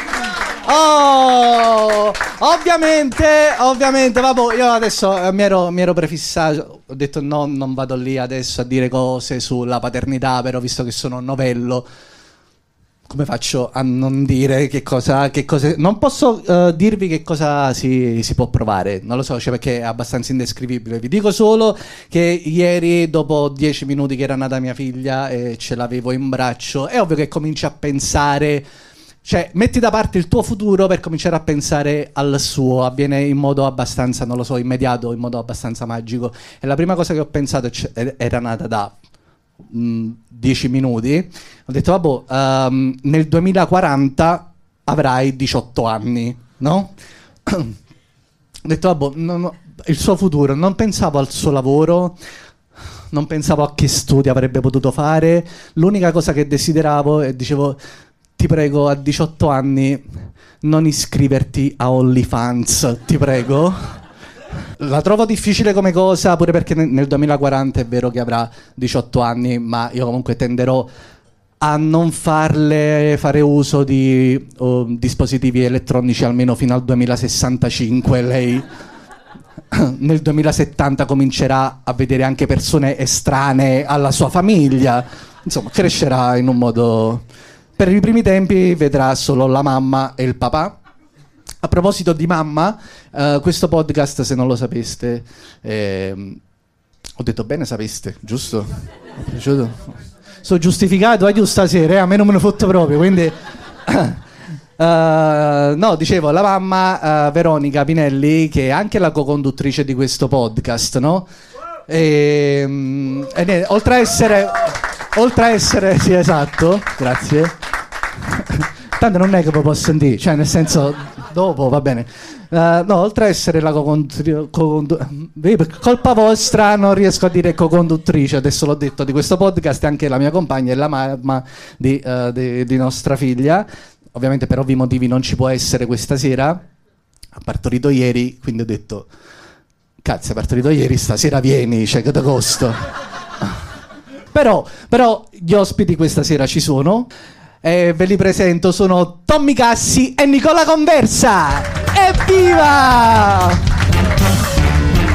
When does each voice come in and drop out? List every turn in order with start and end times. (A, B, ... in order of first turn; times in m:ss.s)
0:00.6-0:11.8 A
0:13.1-0:28.6 A
0:29.2-0:38.9 A
0:39.7-0:46.9 A
0:47.4-0:47.8 A
0:48.6-0:52.1 A
0:53.1-0:57.8 A
0:58.4-1:04.0 A
1:04.8-1:10.9 A
1:11.6-1:18.6 A
1:19.7-1:27.2 A
1:27.8-1:30.8 A
1:31.6-1:36.4 A
1:37.2-1:39.9 A
1:40.4-1:44.2 A
1:44.8-1:51.3 A
1:51.9-1:57.6 A
1:58.2-2:16.6 A
2:17.3-2:19.1 A
2:20.0-2:22.9 A
2:24.3-2:27.1 A
2:27.6-2:33.6 A